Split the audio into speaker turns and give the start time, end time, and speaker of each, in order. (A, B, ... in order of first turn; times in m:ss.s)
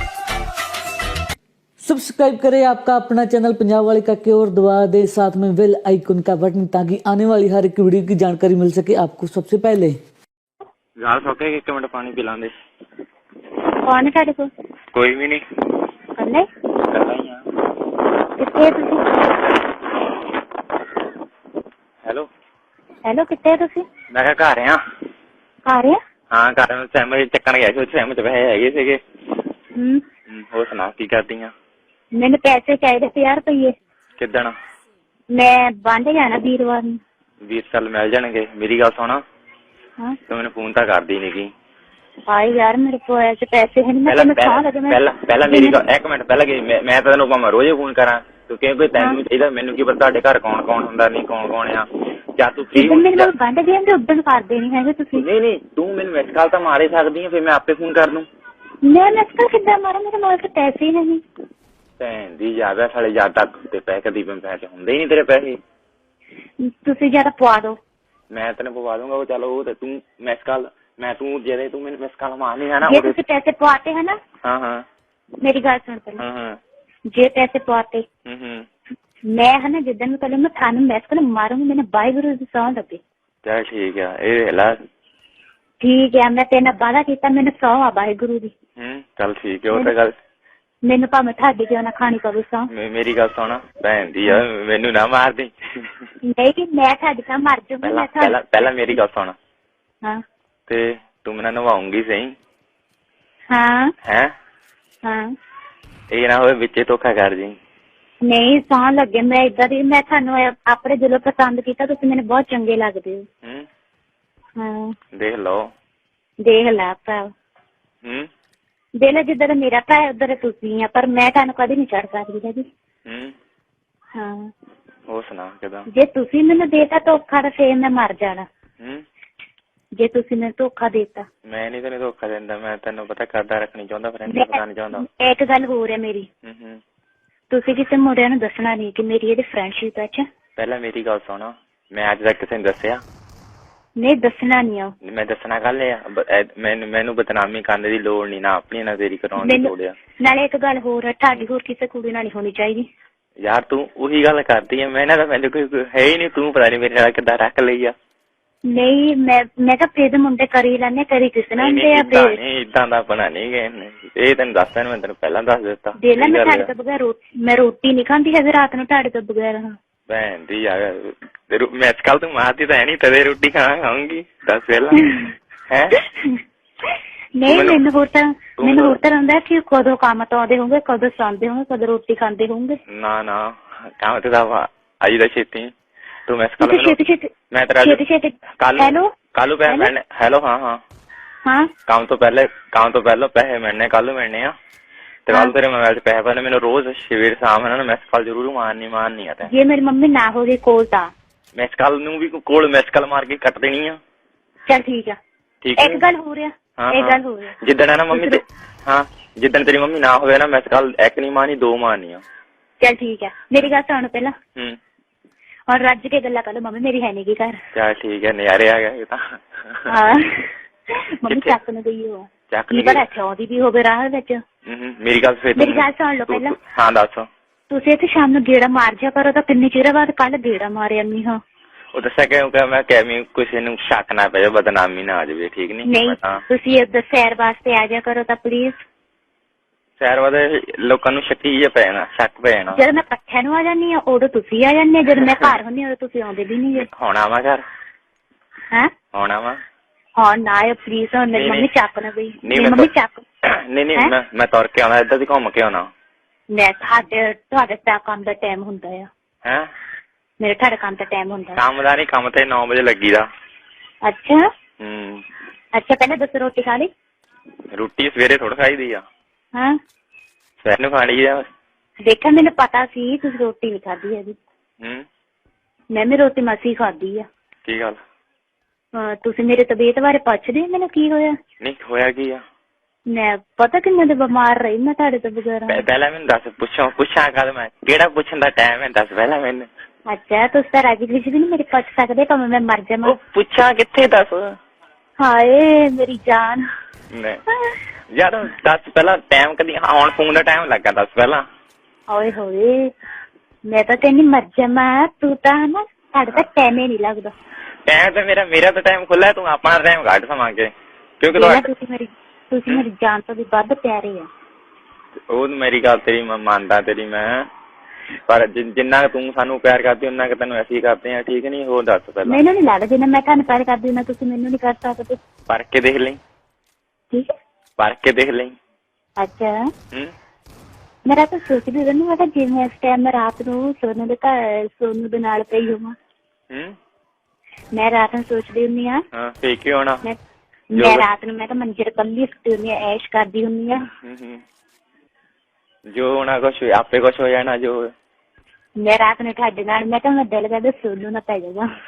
0:01.8-0:10.0 A
0:11.0-0:12.5 B
0:13.8-0:14.5 C
0:14.9-0:15.4 B
0:16.2-0:16.4 C
0:16.9-0:17.4 B
0:18.4-0:19.0 C
0:23.0-0:23.9 C
0:24.1-0:24.8 B
0:25.6-0:26.0 C
0:26.3-0:29.0 B
0:29.7-0:30.0 C
0:30.3-0:31.5 B
0:32.1-0:33.7 C
0:34.2-0:34.5 B
0:35.3-0:37.0 C
0:37.4-0:39.2 B
0:40.3-0:41.5 B
0:42.3-0:45.8 C
0:44.1-0:51.8 B
0:52.4-0:53.3 B
0:52.7-0:55.3 C
0:55.1-0:58.2 B
0:58.8-1:01.2 C
1:02.0-1:05.6 B
1:06.6-1:07.8 C
1:08.3-1:13.2 B
1:12.8-1:14.2 C
1:14.4-1:14.8 B
1:15.4-1:16.2 C
1:16.2-1:16.6 B
1:17.1-1:18.0 C
1:18.3-1:18.6 B
1:19.3-1:23.0 C
1:23.4-1:24.7 B
1:25.8-1:28.5 C
1:28.8-1:30.1 B
1:30.8-1:32.7 C
1:32.7-1:36.0 B
1:36.2-1:38.4 C
1:37.8-1:39.4 B
1:40.7-1:42.3 B
1:43.5-1:43.9 C
1:44.0-1:44.3 B
1:46.1-1:47.5 B
1:48.2-1:53.2 C
1:54.6-1:54.9 C
1:55.2-1:55.7 B
1:56.4-1:57.3 C
1:59.0-2:02.6 C
2:03.0-2:03.3 B
2:04.2-2:04.5 C
2:05.1-2:05.9 B
2:05.9-2:08.4 C
2:10.0-2:11.2 C
2:11.4-2:15.1 B
2:14.3-2:16.3 C
2:16.4-2:16.8 B
2:17.5-2:20.2 C
2:20.6-2:23.0 B
2:24.0-2:24.9 C
2:25.0-2:29.9 B
2:29.4-2:32.8 C
2:33.4-2:37.9 B
2:38.7-2:42.4 C
2:41.6-2:46.7 B
2:46.0-2:49.7 C
2:50.1-2:55.0 B
2:54.9-2:55.3 C
2:55.7-2:56.0 B
2:56.0-2:56.4 C
2:56.9-3:02.8 C
2:57.5-2:57.8 B
2:58.6-2:59.0 B
3:02.9-3:05.7 B
3:06.3-3:07.0 B
3:06.6-3:07.3 C
3:07.5-3:08.0 B
3:07.8-3:09.1 C
3:08.6-3:10.8 B
3:09.7-3:09.9 C
3:11.9-3:14.5 B
3:15.3-3:19.5 B
3:19.4-3:21.1 C
3:21.5-3:24.0 B
3:24.6-3:25.2 C
3:25.6-3:26.0 B
3:25.8-3:27.5 C
3:26.8-3:32.2 B
3:28.1-3:28.4 C
3:32.8-3:34.3 C
3:35.7-3:37.6 C
3:37.7-3:40.1 B
3:39.9-3:44.4 C
3:41.3-3:41.6 B
3:42.5-3:43.0 B
3:44.6-3:47.3 B
3:45.6-3:46.6 C
3:47.7-3:51.4 C
3:51.9-3:56.4 B
3:55.8-3:58.8 C
4:00.0-4:02.8 B
4:02.7-4:06.9 C
4:06.8-4:07.6 B
4:09.1-4:09.6 B
4:10.2-4:13.2 C
4:11.3-4:11.7 B
4:12.4-4:12.9 B
4:13.4-4:15.9 B
4:16.5-4:19.1 C
4:20.4-4:21.6 C
4:21.6-4:23.2 B
4:24.0-4:24.4 C
4:24.8-4:25.2 B
4:25.7-4:26.9 C
4:27.7-4:29.0 B
4:30.6-4:31.4 B
4:32.0-4:34.4 C
4:35.9-4:37.2 C
4:37.6-4:38.0 B
4:39.0-4:41.3 C
4:41.6-4:42.4 B
4:43.1-4:45.8 C
4:45.7-4:49.7 B
4:50.1-4:53.2 C
4:53.0-4:54.6 B
4:55.2-4:56.6 C
4:57.1-4:57.4 B
4:58.1-5:01.4 B
5:02.1-5:02.7 C
5:03.7-5:07.3 C
5:07.9-5:11.7 B
5:11.3-5:14.3 C
5:15.3-5:17.4 B
5:18.3-5:22.4 B
5:22.2-5:25.2 C
5:25.5-5:26.2 B
5:27.8-5:28.5 B
5:29.2-5:29.6 C
5:31.0-5:35.9 C
5:37.7-5:39.0 C
5:39.1-5:40.0 B
5:40.7-5:43.8 C
5:40.7-5:41.1 B
5:44.0-5:44.4 B
5:45.9-5:47.9 B
5:48.8-5:51.6 C